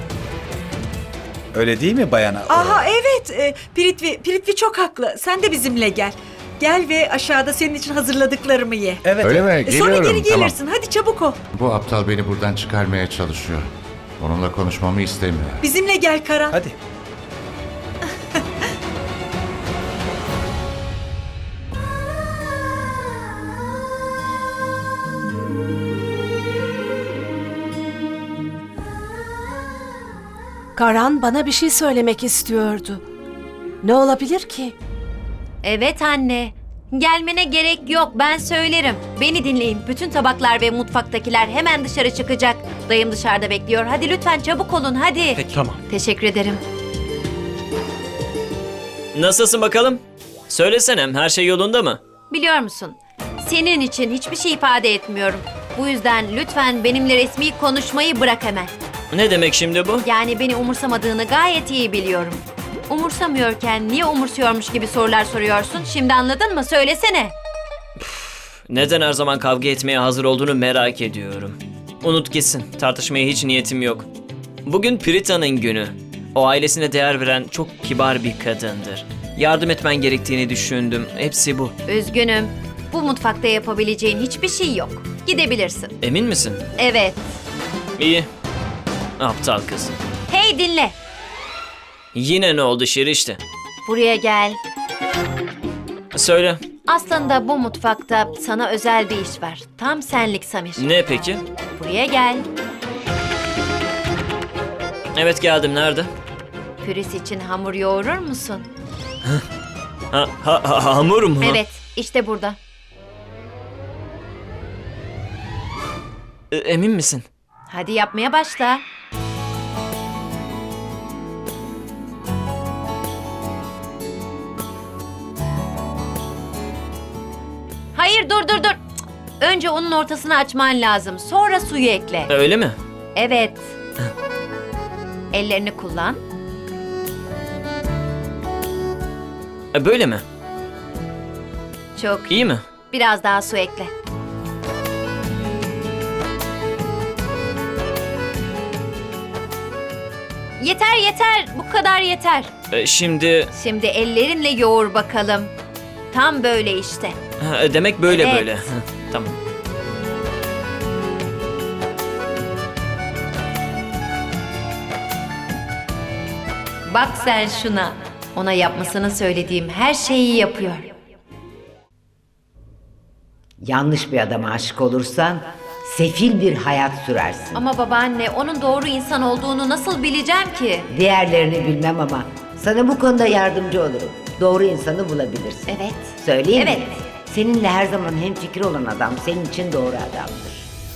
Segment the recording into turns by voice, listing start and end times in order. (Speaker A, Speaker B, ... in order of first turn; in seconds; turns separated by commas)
Speaker A: 1.5-2.9, Speaker B: 2.5-9.1, Speaker A: 9.0-9.5, Speaker C: 9.2-10.6, Speaker B: 9.6-11.4, Speaker C: 11.5-15.6, Speaker B: 15.6-16.6, Speaker A: 16.5-16.8, Speaker D: 30.7-33.0, Speaker D: 33.8-34.7, Speaker E: 35.6-46.6, Speaker F: 45.4-45.8, Speaker F: 49.1-52.0, Speaker E: 52.3-58.7, Speaker F: 59.1-60.0, Speaker E: 60.0-67.3, Speaker F: 68.0-74.1, Speaker F: 74.7-81.7, Speaker E: 81.9-85.9, Speaker F: 86.0-86.6, Speaker E: 86.8-87.3, Speaker F: 88.0-88.3, Speaker F: 89.2-90.0, Speaker E: 90.3-90.9, Speaker F: 92.1-93.4, Speaker E: 93.8-94.6, Speaker F: 96.1-96.6, Speaker E: 96.8-100.9, Speaker F: 100.8-101.4, Speaker E: 101.7-102.4, Speaker F: 105.1-106.1, Speaker E: 106.8-108.7, Speaker F: 110.1-111.6, Speaker E: 111.4-112.6, Speaker F: 116.5-117.3, Speaker E: 117.7-118.8, Speaker E: 127.9-128.8, Speaker E: 129.4-132.3, Speaker F: 132.3-132.8, Speaker E: 133.1-133.7, Speaker E: 135.3-136.2, Speaker F: 139.7-140.2, Speaker E: 141.9-143.9, Speaker F: 142.3-142.6, Speaker E: 150.6-152.5, Speaker F: 152.7-153.5, Speaker E: 153.5-155.5, Speaker E: 156.1-157.2, Speaker F: 157.4-159.3, Speaker E: 158.1-158.6, Speaker E: 166.9-170.9, Speaker G: 173.6-177.6, Speaker E: 177.5-180.8, Speaker G: 180.9-190.7, Speaker E: 185.7-186.9